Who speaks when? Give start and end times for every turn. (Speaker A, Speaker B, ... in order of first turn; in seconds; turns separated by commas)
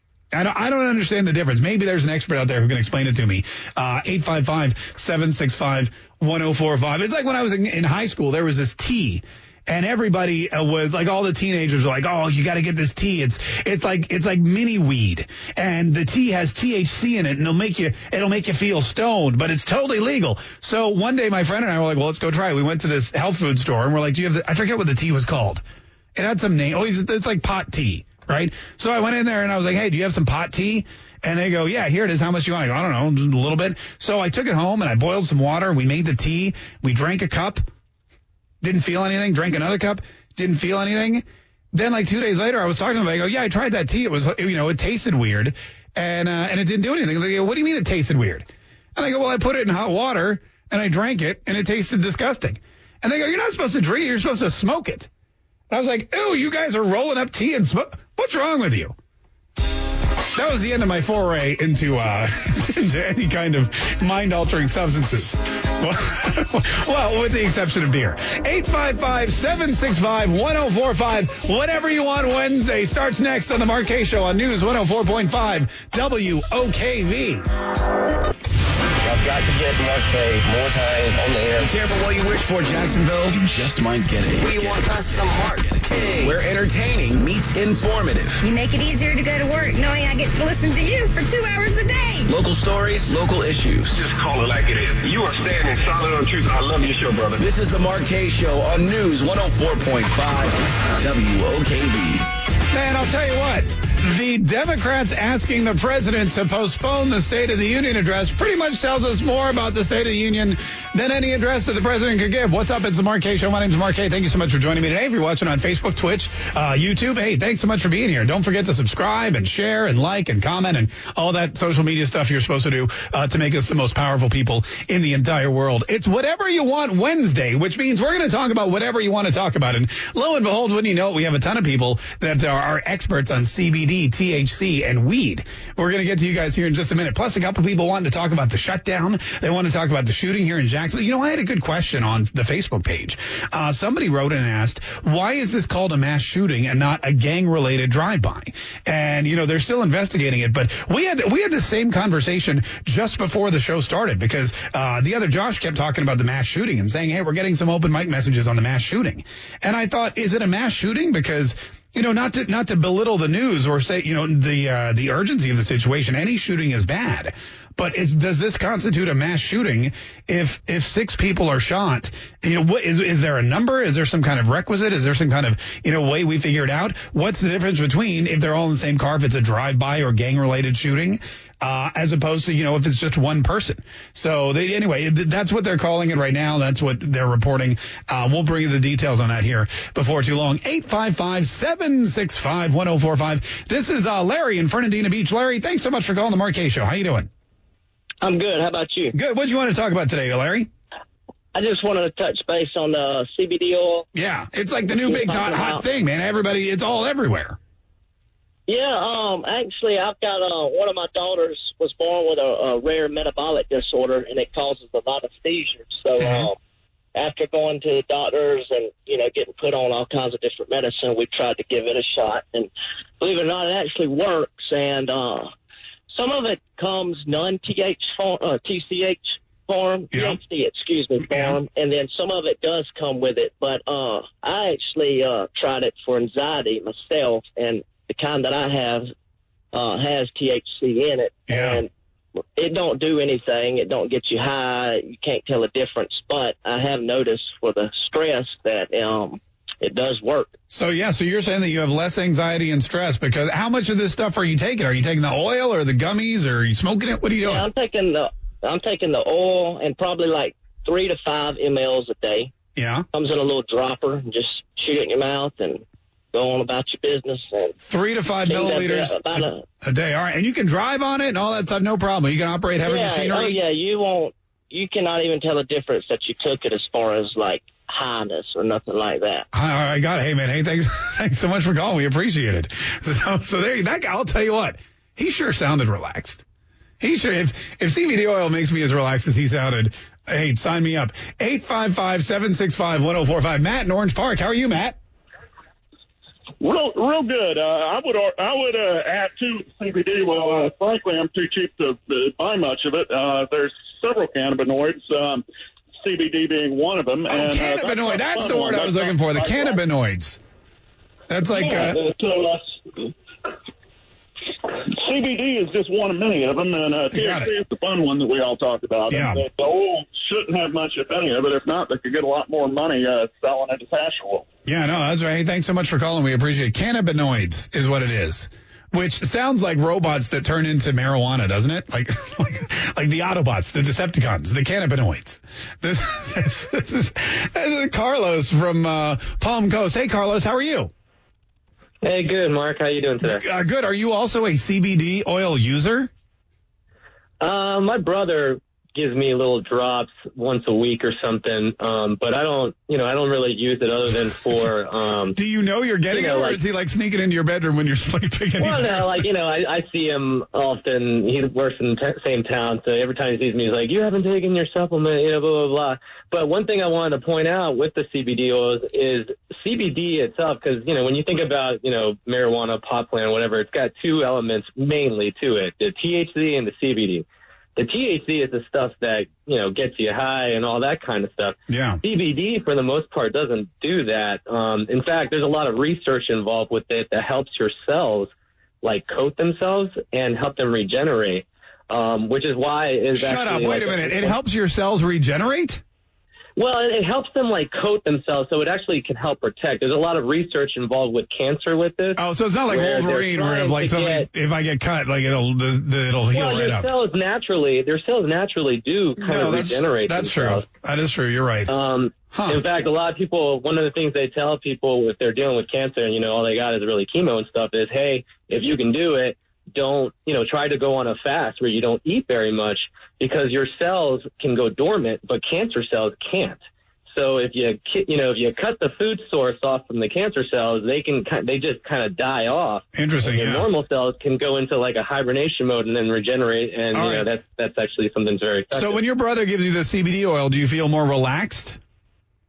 Speaker A: 0.3-25.6, Speaker A: 26.1-37.6, Speaker A: 38.6-55.1, Speaker A: 55.7-59.0, Speaker A: 60.3-77.5, Speaker B: 79.0-81.7, Speaker C: 81.6-88.4, Speaker B: 84.3-85.3, Speaker D: 88.4-92.3, Speaker C: 92.3-94.1, Speaker E: 93.9-97.5, Speaker C: 97.4-102.2, Speaker A: 102.7-197.3, Speaker F: 198.2-199.2, Speaker A: 199.1-200.7, Speaker F: 201.6-204.1, Speaker A: 204.1-207.6, Speaker F: 204.9-205.8, Speaker F: 208.7-216.6, Speaker A: 216.2-216.5, Speaker F: 217.2-225.5, Speaker F: 226.1-239.1, Speaker A: 230.1-230.4, Speaker A: 231.2-231.6, Speaker F: 239.7-241.9, Speaker A: 241.5-241.8, Speaker F: 242.6-250.5, Speaker A: 250.7-257.7, Speaker F: 257.4-262.5, Speaker A: 262.8-263.1, Speaker F: 263.1-267.7, Speaker A: 267.9-273.6, Speaker F: 268.4-269.6, Speaker F: 272.8-279.5, Speaker A: 279.5-286.4, Speaker A: 287.0-295.0, Speaker G: 296.6-305.4, Speaker G: 306.0-309.8, Speaker A: 307.3-310.4, Speaker A: 311.3-312.0, Speaker G: 311.5-312.7, Speaker G: 314.9-324.5, Speaker A: 317.1-317.6, Speaker A: 319.1-319.4, Speaker A: 324.7-340.9, Speaker H: 342.0-343.4, Speaker A: 343.2-346.1, Speaker H: 347.4-355.4, Speaker A: 355.4-359.3, Speaker H: 356.1-356.6, Speaker H: 358.6-377.2, Speaker H: 377.8-388.3, Speaker A: 381.7-382.0, Speaker H: 388.8-394.4, Speaker A: 393.1-395.8, Speaker H: 396.6-404.3, Speaker A: 402.2-406.9, Speaker H: 406.3-410.7, Speaker A: 409.2-411.7, Speaker H: 411.7-426.6, Speaker A: 412.3-412.6, Speaker H: 427.1-439.0, Speaker A: 432.9-433.7, Speaker A: 436.9-437.3, Speaker A: 438.7-441.8